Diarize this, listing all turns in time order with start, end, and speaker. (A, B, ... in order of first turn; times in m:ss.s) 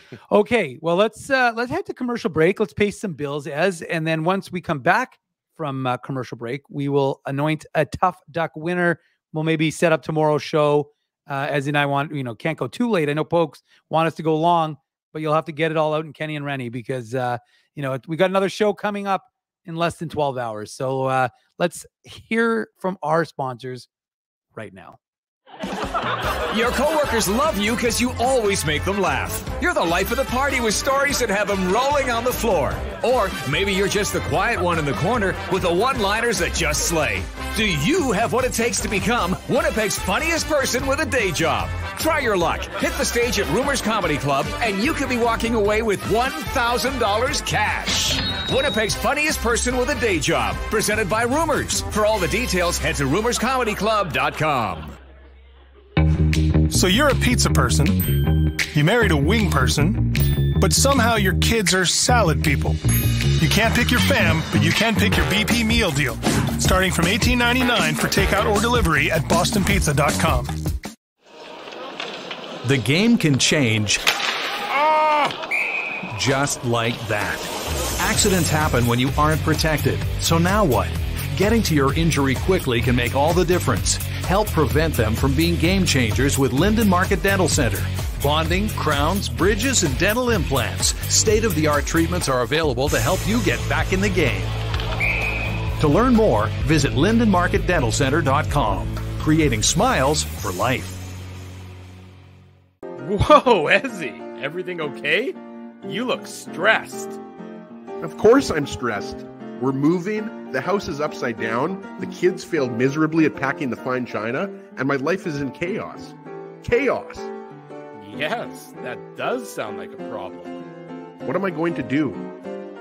0:00.3-0:23.9 A
0:24.6-0:25.0 A
0:26.5-0:54.9 B
0:56.7-1:02.8 C
1:03.4-1:10.5 C
1:12.6-1:14.0 D
1:16.1-1:34.6 D
1:35.8-1:41.0 D
1:43.0-1:47.2 E
1:48.0-1:57.3 F
1:58.0-2:00.6 E
2:01.2-2:02.3 F